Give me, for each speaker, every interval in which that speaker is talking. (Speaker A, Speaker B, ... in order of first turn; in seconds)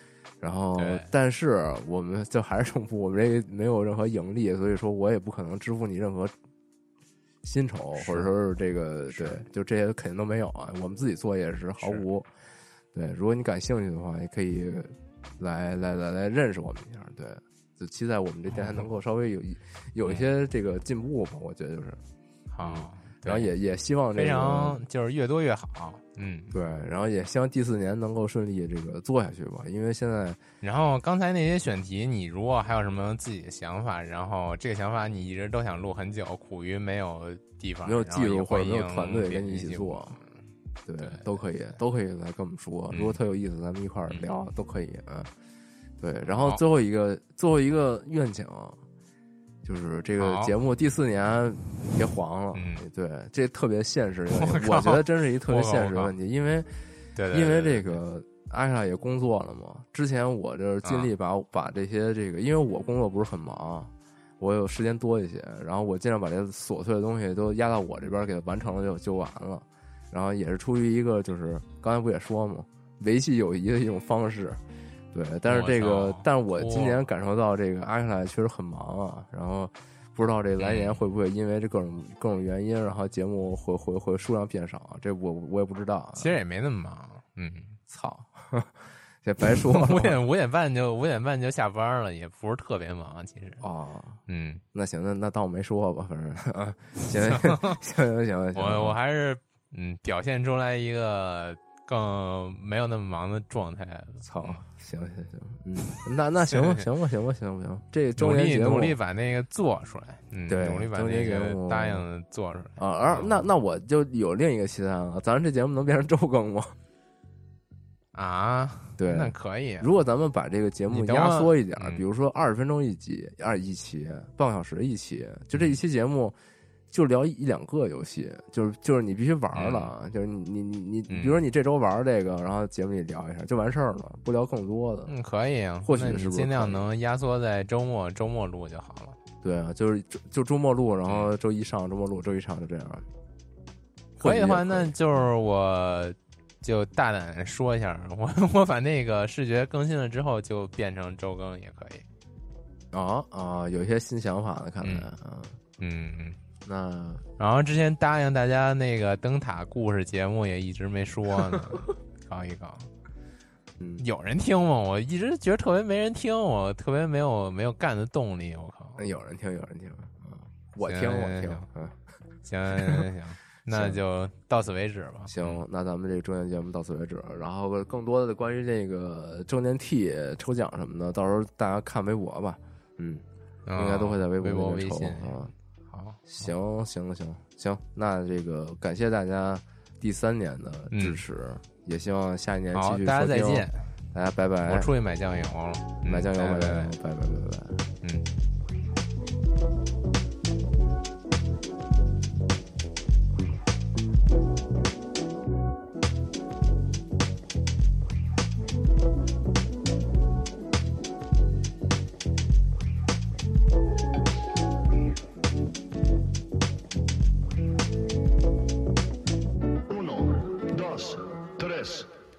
Speaker A: 0.4-6.3, 7.4-12.3, 12.9-22.0, 22.6-24.8, 26.5-30.4, 37.9-40.2, 40.9-45.3, 46.0-48.8, 49.6-56.7, 57.3-74.6, 75.1-86.4, 87.9-90.2, 93.6-94.2, 94.7-99.0, 104.2-109.0, 110.5-112.0, 112.8-116.8, 119.0-126.4, 126.9-135.1, 135.8-136.9, 139.4-143.1, 144.2-144.9, 152.9-155.6, 156.7-157.2, 163.8-164.0, 169.0-172.0, 172.7-173.1, 173.7-174.0, 175.3-185.5, 186.3-194.9, 196.1-197.9
Speaker B: 0.8-1.1, 8.0-8.3, 9.1-9.4, 11.8-12.1, 18.5-18.8, 22.5-23.5, 24.2-26.5, 30.6-40.3, 42.9-43.2, 46.3-46.6, 50.2-50.5, 52.5-52.8, 54.3-56.1, 57.2-58.0, 60.8-61.1, 75.5-77.0, 80.6-81.0, 86.2-87.8, 89.4-93.7, 94.3-94.6, 97.1-97.8, 98.5-104.6, 106.5-106.8, 108.2-113.3, 118.1-119.9, 120.9-122.0, 129.5-129.9, 131.1-131.4, 135.1-139.2, 144.2-152.1, 154.8-155.1, 155.8-156.4, 157.4-162.9, 164.0-169.0, 170.8-171.7, 172.4-175.6, 183.7-185.4, 185.9-186.3, 190.9-191.2, 192.7-193.9, 194.6-196.9, 198.0-198.3
Speaker C: 219.9-222.1